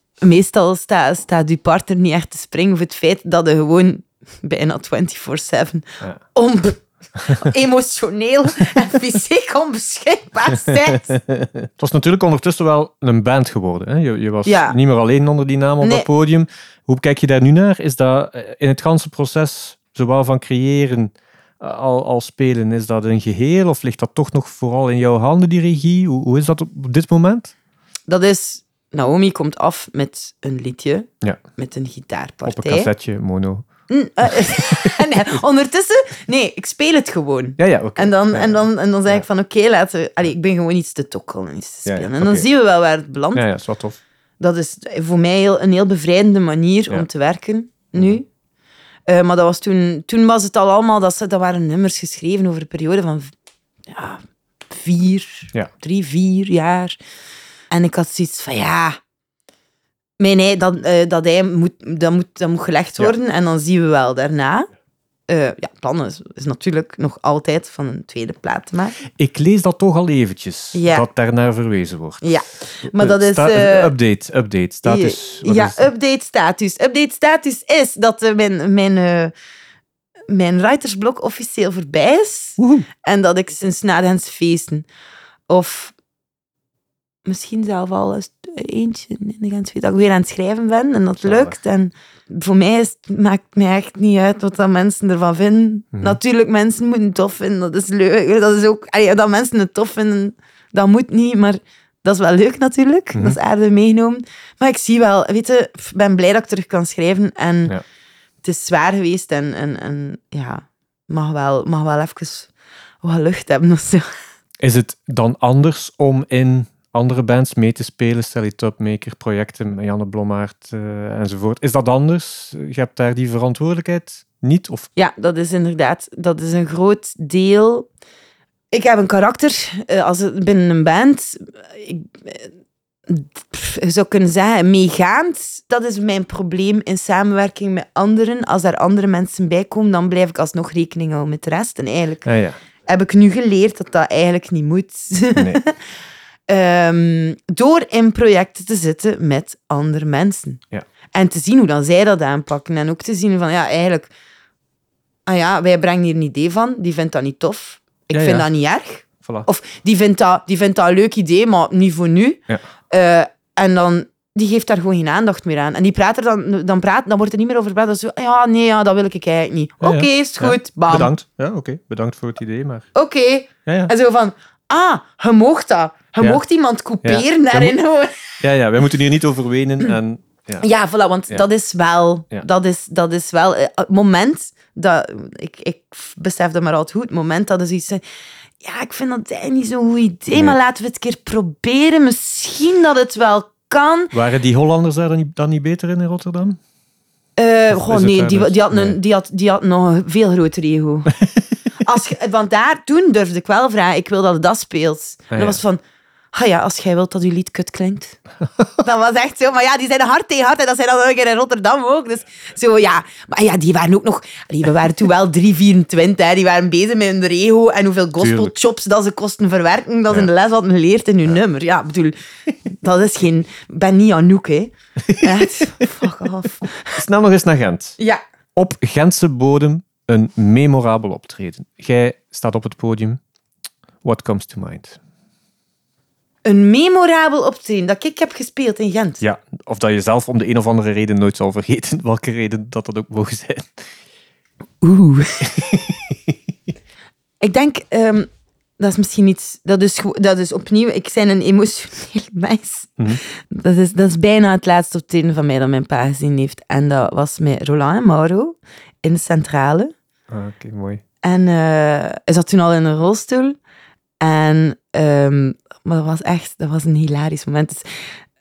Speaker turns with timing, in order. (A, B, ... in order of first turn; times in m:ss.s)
0:00.2-0:11.2 A
0:11.1-0:27.5 B
0:14.4-0:14.8 A
0:15.8-0:16.1 A
0:28.1-0:32.9 A
0:32.5-0:33.7 B
0:33.9-0:43.4 A
0:34.2-0:35.1 B
0:37.6-0:39.2 B
0:41.9-0:42.5 B
0:43.4-0:44.0 B
0:44.4-0:48.3 A
0:49.1-0:53.3 A
0:53.9-0:57.0 A
0:57.7-0:59.0 A
1:00.2-1:04.7 A
1:05.3-1:09.0 A
1:09.1-1:12.2 B
1:10.7-1:11.1 A
1:12.2-1:13.9 A
1:12.8-1:15.8 B
1:14.9-1:19.3 A
1:20.3-1:24.9 A
1:22.6-1:22.9 B
1:25.5-1:26.0 A
1:27.2-1:47.8 A
1:31.2-1:31.6 B
1:48.4-1:52.5 A
1:53.0-1:54.1 A
1:54.6-2:04.9 B
2:05.0-2:07.9 A
2:08.7-2:12.5 A
2:13.1-2:22.3 A
2:22.2-2:22.6 B
2:22.9-2:25.8 A
2:25.4-2:25.6 B
2:26.5-2:30.6 A
2:31.1-2:34.1 A
2:35.3-2:51.1 A
2:38.1-2:38.5 B
2:49.8-2:52.9 B
2:53.0-2:58.4 A
2:53.7-2:53.9 B
2:57.0-2:57.8 B
2:58.4-3:00.7 B
3:00.6-3:08.0 A
3:08.6-3:14.2 A
3:14.1-3:16.6 B
3:17.4-3:21.2 A
3:17.7-3:19.0 B
3:21.8-3:25.8 A
3:25.3-3:25.6 B
3:26.3-3:28.2 A
3:28.8-3:47.0 A
3:38.2-3:38.5 B
3:45.1-3:45.8 B
3:47.0-3:48.0 B
3:48.6-3:53.2 B
3:54.0-3:55.0 B
3:56.4-3:59.2 A
3:59.2-4:03.9 B
4:04.8-4:05.8 A
4:05.6-4:06.1 B
4:07.4-4:19.9 A
4:20.3-4:21.0 B
4:21.2-4:23.6 A
4:24.2-4:27.8 A